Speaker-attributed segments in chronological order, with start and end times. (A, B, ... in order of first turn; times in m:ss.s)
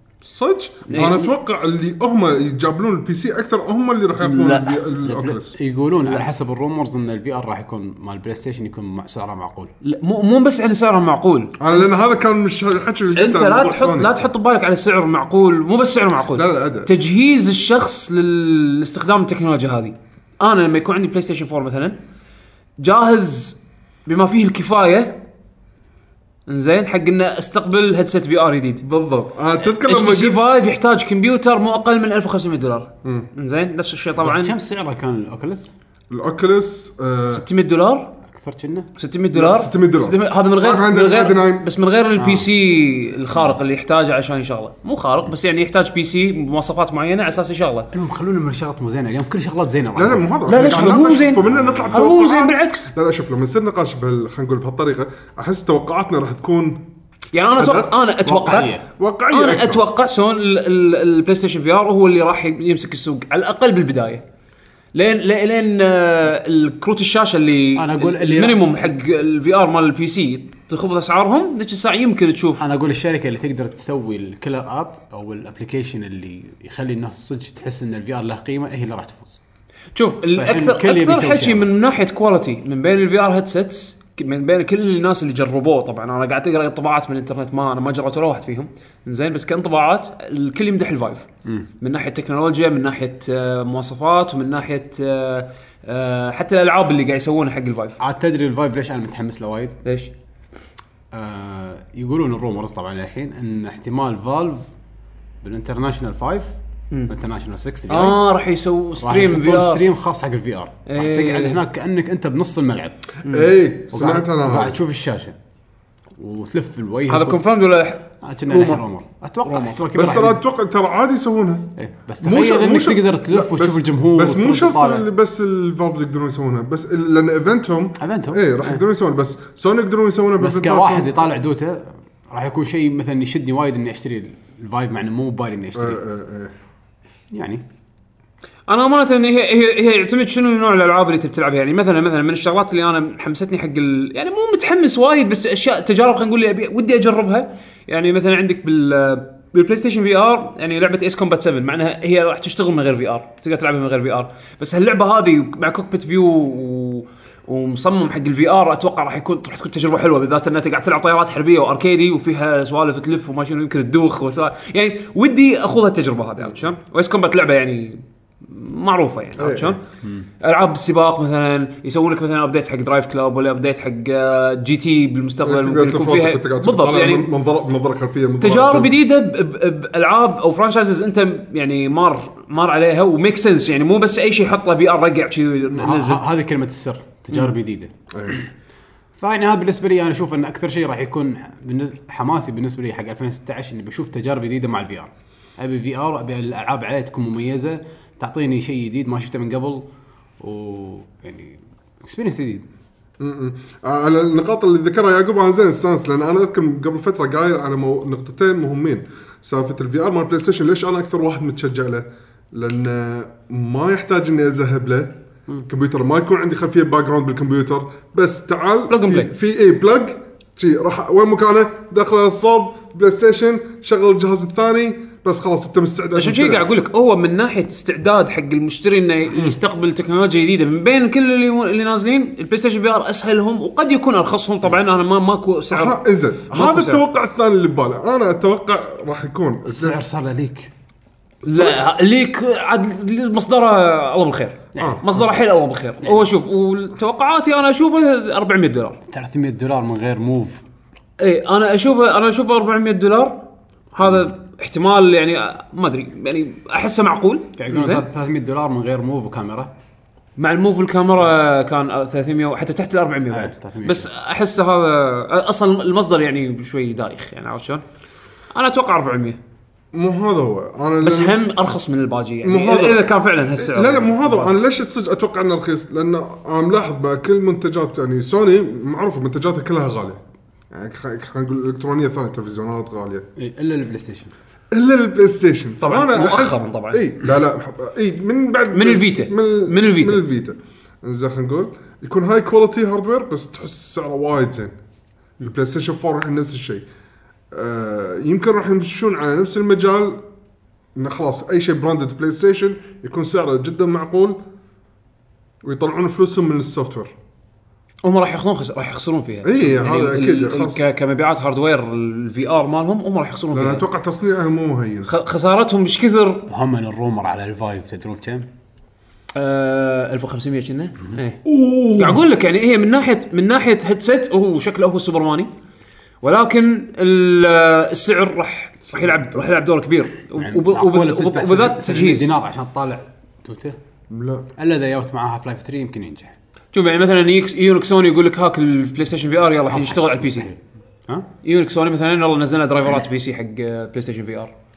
0:00.2-0:05.5 A
0:00.9-0:01.3 B
0:04.2-0:04.8 B
0:05.0-0:09.7 C
0:09.8-0:11.6 B
0:11.6-0:14.2 A
0:13.1-0:22.0 B
0:16.3-0:16.9 A
0:22.8-0:25.2 B
0:26.5-0:28.8 B
0:28.8-0:30.4 A
0:29.6-0:34.5 B
0:34.2-0:35.7 C
0:36.1-0:37.4 A
0:37.3-0:38.1 B
0:38.2-0:38.9 C
0:39.0-0:47.9 B
0:39.3-0:41.7 A
0:42.1-0:42.5 C
0:47.9-0:52.1 C
0:49.9-0:56.8 A
0:50.4-0:52.9 B
0:57.3-0:58.8 B
0:57.6-0:57.9 A
0:58.2-0:58.8 C
0:59.0-0:59.8 A
0:59.3-1:04.2 B
1:04.9-1:12.6 B
1:07.8-1:08.6 C
1:12.6-1:19.4 C
1:19.9-1:31.3 B
1:20.3-1:21.7 C
1:31.8-1:38.0 B
1:38.0-1:39.8 C
1:39.8-1:40.1 B
1:41.1-1:44.6 C
1:45.4-1:46.5 C
1:47.1-1:48.2 C
1:47.9-1:49.8 B
1:49.0-1:53.0 C
1:50.9-1:51.6 B
1:53.2-1:53.5 B
1:53.3-1:54.8 A
1:53.9-1:55.3 C
1:56.2-1:57.4 C
1:57.1-1:58.8 B
1:58.2-2:00.4 C
1:59.4-1:59.8 B
1:59.9-2:01.7 A
2:01.8-2:05.0 C
2:02.2-2:11.2 A
2:08.0-2:08.8 C
2:10.4-2:16.0 C
2:15.7-2:16.5 A
2:17.3-2:17.6 C
2:18.7-2:49.8 B
2:49.4-2:49.8 A
2:50.4-2:57.3 B
2:55.4-2:58.9 A
2:58.4-3:06.2 B
3:05.7-3:08.4 C
3:08.1-3:08.4 A
3:09.2-3:19.8 C
3:20.4-3:22.6 C
3:23.2-3:46.6 A
3:38.9-3:39.3 B
3:46.2-3:57.0 B
3:55.7-4:00.0 A
3:59.6-4:00.7 C
4:01.4-4:01.8 A
4:01.4-4:09.0 B
4:04.7-4:05.0 C
4:04.8-4:05.0 A
4:09.1-4:10.6 C
4:11.2-4:13.4 B
4:13.9-4:18.0 B
4:17.6-4:19.7 C
4:20.4-4:27.8 B
4:23.3-4:24.1 C
4:28.5-4:29.4 B
4:29.9-4:31.4 A
4:31.0-4:34.1 B
4:32.4-4:40.2 A
4:40.7-4:43.2 A
4:43.4-4:44.3 C
4:44.7-4:54.7 A
4:45.8-4:47.0 B
4:48.7-4:50.2 B
4:55.4-4:56.8 A
4:57.5-5:00.2 A
5:01.0-5:04.4 A
5:05.6-5:07.1 A
5:08.0-5:13.8 B
5:09.4-5:10.8 A
5:13.5-5:15.1 A
5:15.0-5:16.4 B
5:16.5-5:18.5 C
5:19.3-5:21.4 B
5:21.4-5:22.2 A
5:22.0-5:25.5 B
5:26.2-5:32.3 B
5:28.9-5:29.4 A
5:30.4-5:33.8 C
5:34.1-5:34.4 A
5:34.6-5:36.4 C
5:36.7-5:40.5 B
5:39.7-5:41.3 C
5:41.4-5:44.5 B